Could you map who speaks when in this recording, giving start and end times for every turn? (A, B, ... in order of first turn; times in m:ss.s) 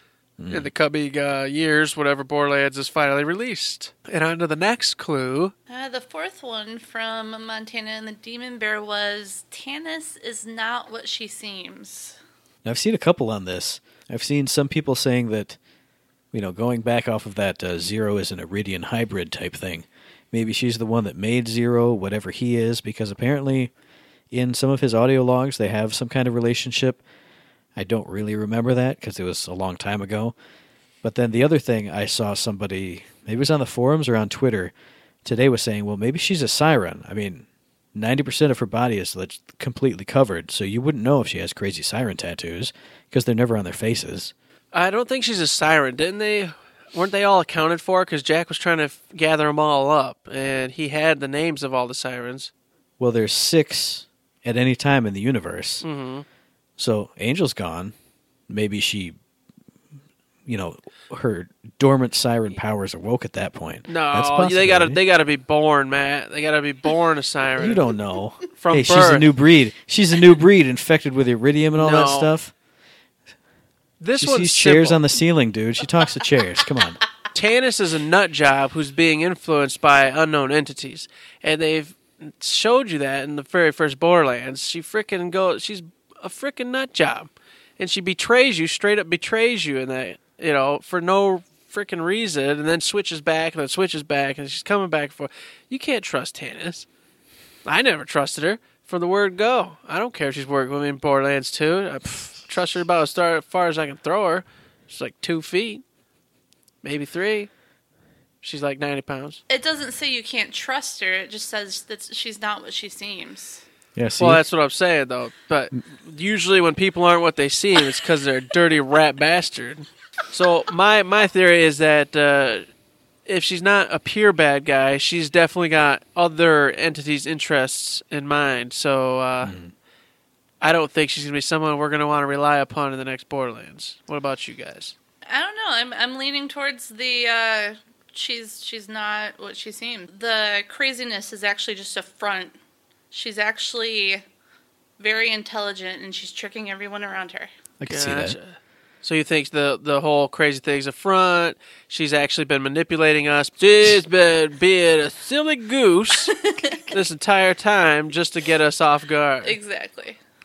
0:00.4-0:00.7 A
0:00.5-0:05.5 B
0:05.7-0:12.2 C
0:12.6-0:15.6 A
0:16.3-0:23.7 A
0:24.3-0:27.0 A
0:27.8-0:30.4 A
0:31.0-0:34.7 A
0:35.2-0:44.3 A
0:44.7-0:52.5 B
0:53.0-0:55.8 A
0:55.8-0:56.2 B
0:56.8-0:57.9 A
0:58.5-0:59.2 A
1:00.5-1:05.0 A
1:03.9-1:07.8 B
1:07.6-1:12.5 A
1:08.6-1:09.3 B
1:11.8-1:12.3 B
1:14.0-1:15.0 B
1:14.2-1:17.0 A
1:17.3-1:36.9 B
1:37.6-1:45.8 B
1:46.8-1:47.5 B
1:48.4-1:49.4 B
1:49.5-1:53.6 C
1:54.0-1:54.4 A
1:54.2-2:02.7 B
2:03.3-2:09.6 B
2:09.4-2:09.7 A
2:10.6-2:15.0 B
2:15.3-2:22.6 C
2:23.1-2:24.2 C
2:25.0-2:27.5 C
2:27.8-2:28.4 A
2:27.9-2:36.4 B
2:36.4-2:36.9 C
2:36.9-2:39.6 B
2:39.4-2:40.2 C